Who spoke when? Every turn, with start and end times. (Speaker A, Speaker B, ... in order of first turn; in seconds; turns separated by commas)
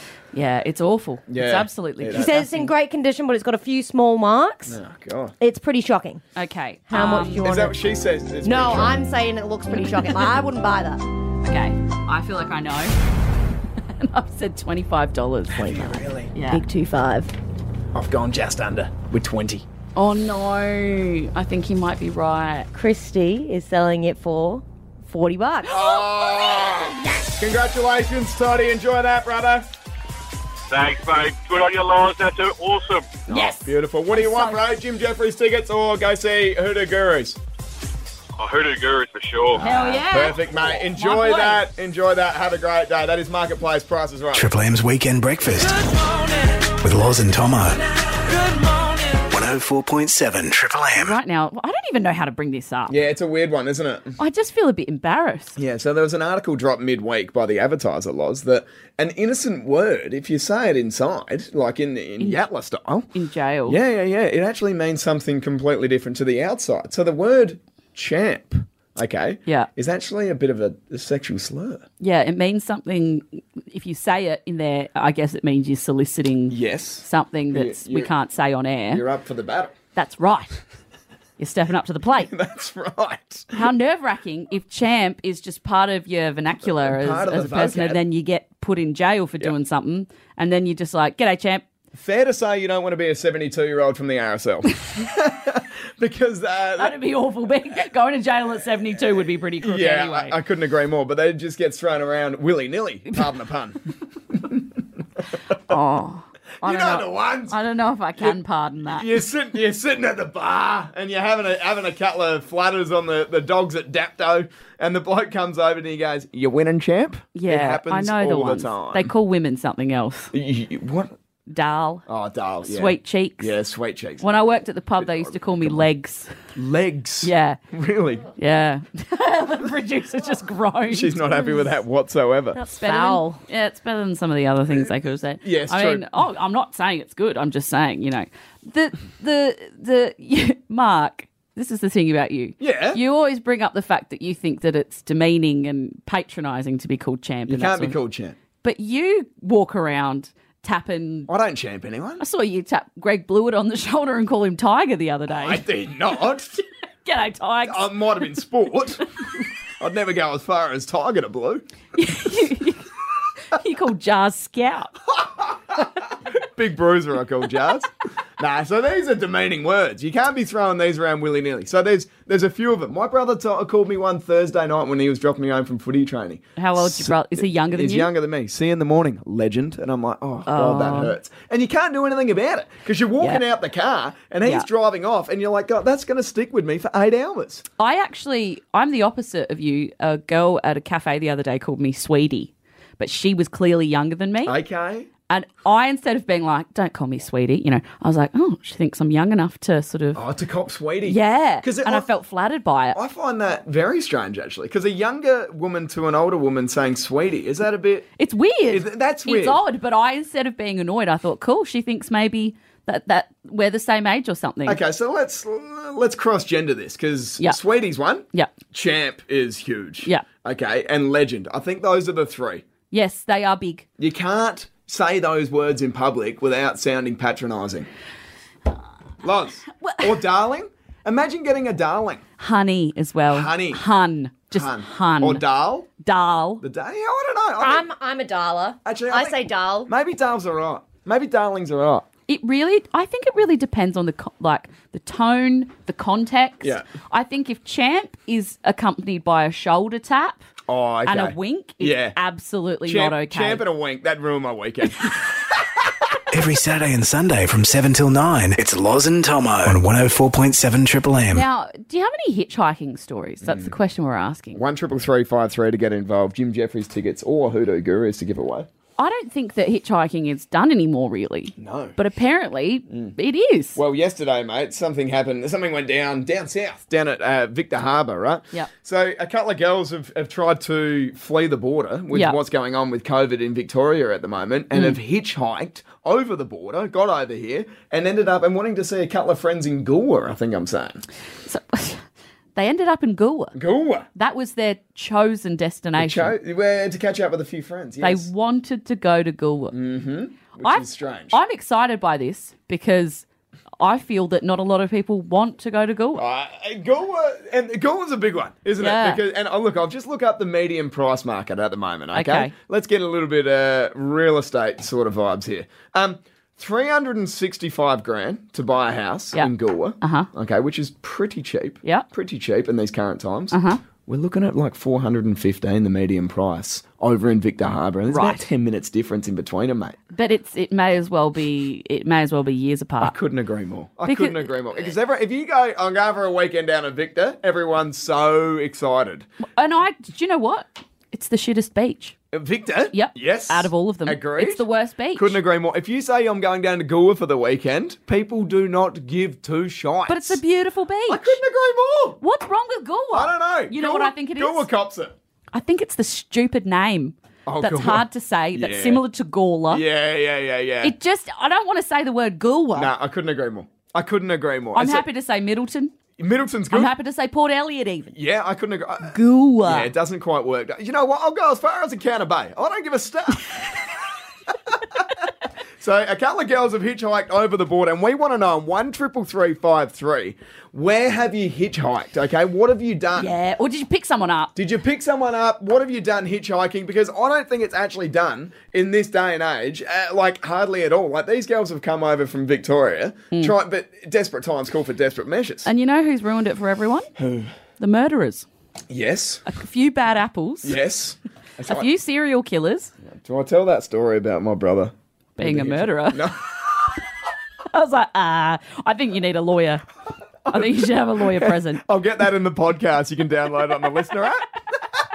Speaker A: 0.3-2.7, Speaker B: 1.3-2.4, Speaker C: 2.1-4.8, Speaker B: 4.7-5.3, Speaker C: 5.4-6.2, Speaker A: 6.3-7.4, Speaker C: 6.9-7.9, Speaker B: 7.4-9.0, Speaker C: 8.4-11.0, Speaker A: 11.4-12.9, Speaker A: 13.9-15.8, Speaker B: 15.5-16.3, Speaker A: 16.3-16.6, Speaker C: 16.4-17.3, Speaker B: 17.9-19.6, Speaker A: 19.9-22.7, Speaker C: 22.7-25.9, Speaker B: 25.7-29.7, Speaker A: 25.8-27.0, Speaker D: 30.7-33.2, Speaker A: 33.3-34.6, Speaker B: 33.3-37.4, Speaker D: 38.4-39.7, Speaker B: 39.5-44.5, Speaker A: 39.6-41.6, Speaker E: 44.3-45.8, Speaker E: 46.8-47.8, Speaker E: 49.2-51.2, Speaker A: 51.0-53.0, Speaker B: 52.9-54.1, Speaker A: 54.2-55.6, Speaker B: 55.5-63.1, Speaker A: 63.1-63.8, Speaker B: 63.6-71.8, Speaker A: 72.0-79.0, Speaker B: 76.5-78.1, Speaker B: 78.9-79.7, Speaker A: 79.9-80.6, Speaker A: 81.4-82.3, Speaker B: 82.2-83.5, Speaker A: 83.5-91.7, Speaker B: 86.6-88.0, Speaker B: 91.9-97.0, Speaker A: 96.8-100.4, Speaker B: 99.6-103.8, Speaker B: 104.3-104.6, Speaker A: 105.7-109.1, Speaker B: 106.6-107.6, Speaker B: 108.9-119.1, Speaker A: 117.3-120.3, Speaker B: 120.3-121.1, Speaker A: 121.5-122.0, Speaker B: 122.1-124.3, Speaker A: 122.6-123.5, Speaker A: 124.2-126.3, Speaker B: 125.0-125.8, Speaker B: 126.5-128.3, Speaker A: 127.2-127.6, Speaker A: 128.4-131.7, Speaker B: 130.9-132.6, Speaker C: 132.6-133.4, Speaker A: 132.7-148.0, Speaker B: 135.4-136.1, Speaker B: 142.6-143.0, Speaker B: 147.5-148.4, Speaker A: 148.6-151.3, Speaker B: 151.3-152.2, Speaker A: 152.2-155.6, Speaker B: 155.3-156.6, Speaker A: 157.0-157.9, Speaker B: 157.6-159.0, Speaker B: 159.8-161.6, Speaker A: 161.9-162.8, Speaker A: 163.5-164.9, Speaker B: 165.4-187.6, Speaker A: 176.6-178.1, Speaker A: 180.5-181.2, Speaker A: 187.8-194.6, Speaker B: 194.4-195.1, Speaker A: 195.3-200.2, Speaker B: 200.1-202.1, Speaker A: 201.0-203.0, Speaker B: 202.9-208.1, Speaker A: 208.2-214.8, Speaker B: 208.7-209.6, Speaker B: 214.7-222.6, Speaker A: 222.9-223.9, Speaker B: 224.0-227.9, Speaker B: 229.2-232.2, Speaker A: 229.8-230.1, Speaker A: 232.4-235.4, Speaker B: 233.3-233.8, Speaker B: 234.5-235.9, Speaker A: 236.0-236.6, Speaker B: 236.6-237.9, Speaker C: 237.6-239.9, Speaker B: 238.8-242.1, Speaker A: 242.3-250.4, Speaker B: 250.7-252.2, Speaker A: 251.1-253.7, Speaker B: 252.8-255.7, Speaker E: 256.3-261.4, Speaker A: 261.3-264.6, Speaker B: 263.4-263.7, Speaker B: 264.5-268.7, Speaker A: 269.0-273.8, Speaker B: 271.6-271.9, Speaker B: 272.9-273.1, Speaker B: 273.7-291.0, Speaker A: 282.1-282.4, Speaker A: 291.4-293.6, Speaker B: 293.5-294.1, Speaker A: 294.1-296.4, Speaker B: 296.0-298.3, Speaker A: 298.0-299.8, Speaker B: 299.7-301.4, Speaker A: 300.6-303.2, Speaker A: 303.8-306.2, Speaker B: 306.1-330.0, Speaker A: 308.8-309.2, Speaker A: 312.1-312.5, Speaker A: 319.3-320.3, Speaker A: 323.5-323.8, Speaker A: 328.1-328.4, Speaker A: 330.1-333.1, Speaker B: 333.0-339.3, Speaker A: 334.0-334.9, Speaker A: 339.6-342.1, Speaker B: 342.3-350.4, Speaker A: 342.9-345.4, Speaker A: 350.1-351.4, Speaker B: 351.1-352.2, Speaker A: 352.2-354.7, Speaker B: 353.1-355.1, Speaker A: 355.5-359.8, Speaker B: 357.4-359.0, Speaker B: 359.7-360.9, Speaker A: 360.8-362.9, Speaker B: 362.7-365.1, Speaker A: 364.7-365.9, Speaker B: 366.2-366.9, Speaker A: 366.7-368.1, Speaker B: 368.1-373.6, Speaker A: 369.1-369.9, Speaker B: 374.7-375.0, Speaker B: 375.8-383.3, Speaker A: 383.1-384.5, Speaker B: 384.6-395.7, Speaker A: 395.6-397.1, Speaker B: 397.2-397.5, Speaker A: 397.8-398.5, Speaker B: 398.9-399.4, Speaker A: 399.4-400.8, Speaker B: 400.6-401.9, Speaker A: 401.7-402.9, Speaker B: 403.1-406.4, Speaker A: 405.4-406.2, Speaker A: 407.7-409.8, Speaker A: 410.5-411.8, Speaker B: 410.5-414.5